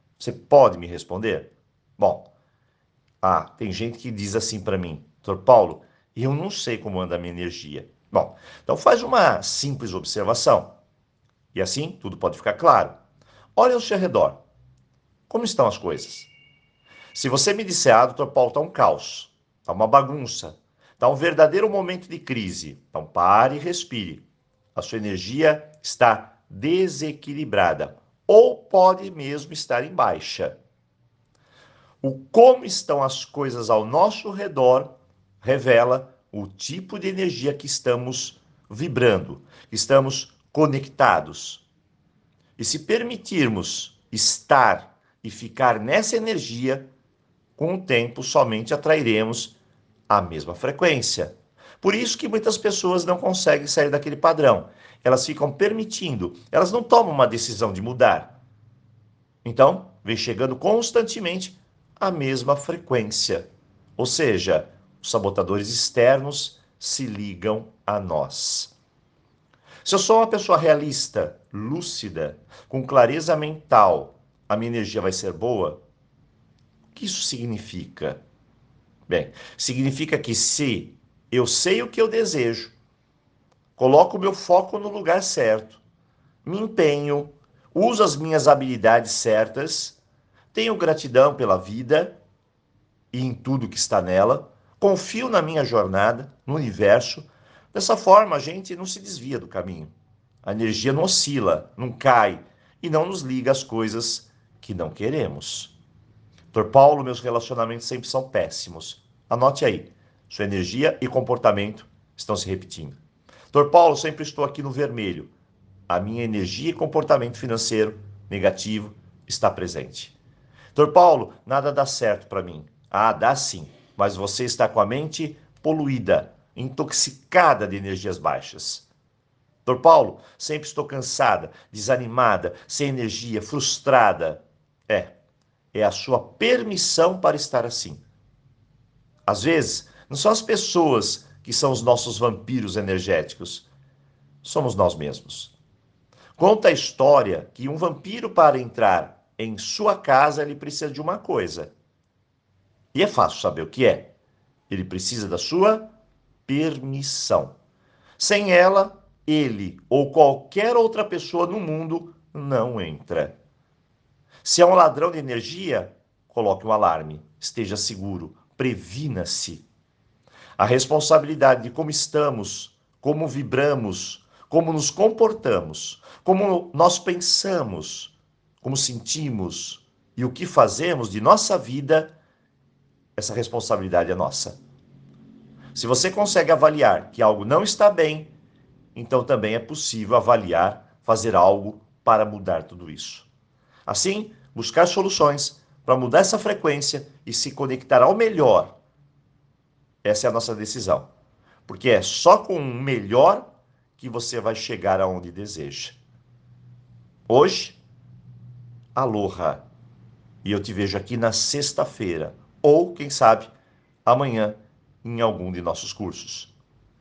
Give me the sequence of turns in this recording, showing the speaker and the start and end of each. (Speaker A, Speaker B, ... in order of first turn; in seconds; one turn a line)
Speaker A: 0.2-2.3
Speaker A: 3.2-10.7
Speaker A: 11.5-12.9
Speaker A: 13.6-14.4
Speaker A: 15.3-16.3
Speaker A: 17.1-24.2
Speaker A: 24.7-30.6
Speaker A: 32.0-41.6
Speaker A: 42.6-46.9
Speaker A: 47.6-49.5
Speaker A: 50.1-58.4
Speaker A: 59.4-68.7
Speaker A: 69.8-75.8
Speaker A: 76.9-78.2
Speaker A: 79.1-82.7
Speaker A: 83.8-85.8
Speaker A: 86.5-90.0
Speaker A: 90.5-92.2
Speaker A: 93.1-105.7
Speaker A: 106.5-113.0
Speaker A: 113.5-115.3
Speaker A: 115.9-120.1
Speaker A: 120.7-128.9
Speaker A: 129.6-135.1
Speaker A: 135.7-138.0
Speaker A: 139.2-143.7
Speaker A: 144.4-145.5
Speaker A: 146.4-151.7
Speaker A: 152.9-154.1
Speaker A: 154.7-155.9
Speaker A: 156.4-157.6
Speaker A: 158.2-163.4
Speaker A: 164.4-169.6
Speaker A: 170.6-182.1
Speaker A: 183.2-184.6
Speaker A: 185.7-188.3
Speaker A: 188.9-193.3
Speaker A: 193.9-198.8
Speaker A: 200.0-201.1
Speaker A: 201.7-206.0
Speaker A: 207.3-207.8
Speaker A: 208.9-209.6
Speaker A: 210.4-213.5
Speaker A: 214.1-216.5